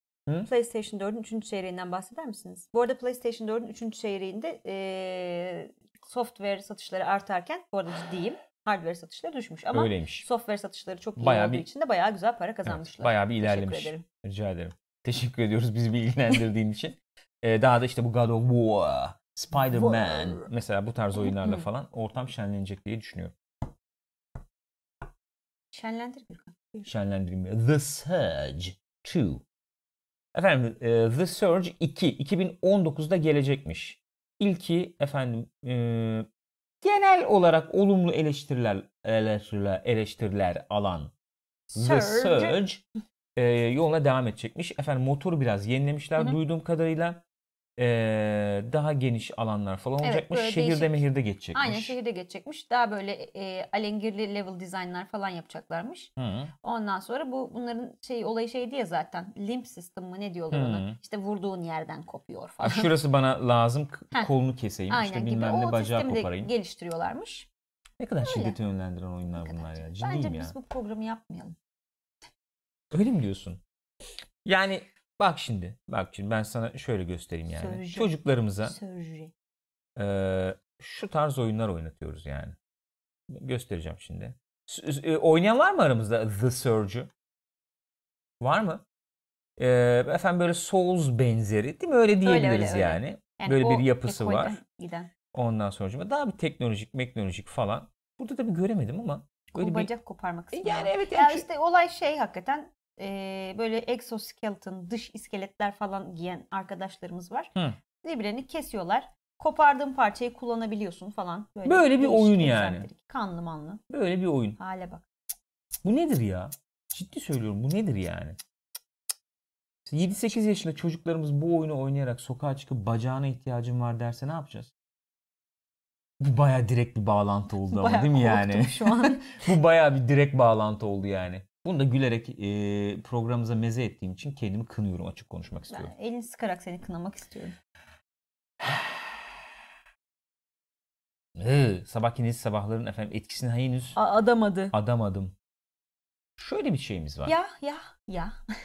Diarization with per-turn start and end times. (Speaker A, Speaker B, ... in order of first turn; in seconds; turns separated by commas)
Speaker A: 0.4-14.0, Speaker B: 9.7-10.2, Speaker B: 11.2-11.7, Speaker B: 12.6-23.3, Speaker A: 19.7-20.5, Speaker A: 21.3-21.6, Speaker A: 25.7-26.9, Speaker B: 26.9-29.4, Speaker B: 30.3-36.3, Speaker B: 36.8-41.1, Speaker A: 41.7-42.6, Speaker B: 41.7-42.8, Speaker B: 43.4-47.2, Speaker B: 47.8-51.9, Speaker A: 50.0-56.1, Speaker B: 56.2-56.5, Speaker A: 56.6-62.9, Speaker B: 60.5-61.0, Speaker B: 62.6-66.5, Speaker A: 64.9-67.5, Speaker B: 68.0-70.5, Speaker A: 68.2-68.6, Speaker A: 69.4-71.5, Speaker B: 72.9-73.6, Speaker B: 74.4-78.8, Speaker A: 77.5-79.3, Speaker B: 80.0-82.5, Speaker B: 83.3-87.1, Speaker B: 88.4-88.8, Speaker B: 89.6-94.6, Speaker A: 92.2-95.1, Speaker B: 95.3-99.9, Speaker A: 99.5-113.8, Speaker B: 100.5-101.5, Speaker B: 111.6-112.9, Speaker B: 113.9-114.6, Speaker A: 114.6-115.0, Speaker B: 115.8-118.4, Speaker B: 119.8-124.7, Speaker B: 126.2-135.9, Speaker A: 127.7-129.5, Speaker A: 135.7-137.6, Speaker B: 141.3-144.0, Speaker A: 143.9-144.7, Speaker B: 144.7-145.3, Speaker B: 146.4-147.3, Speaker A: 147.2-148.4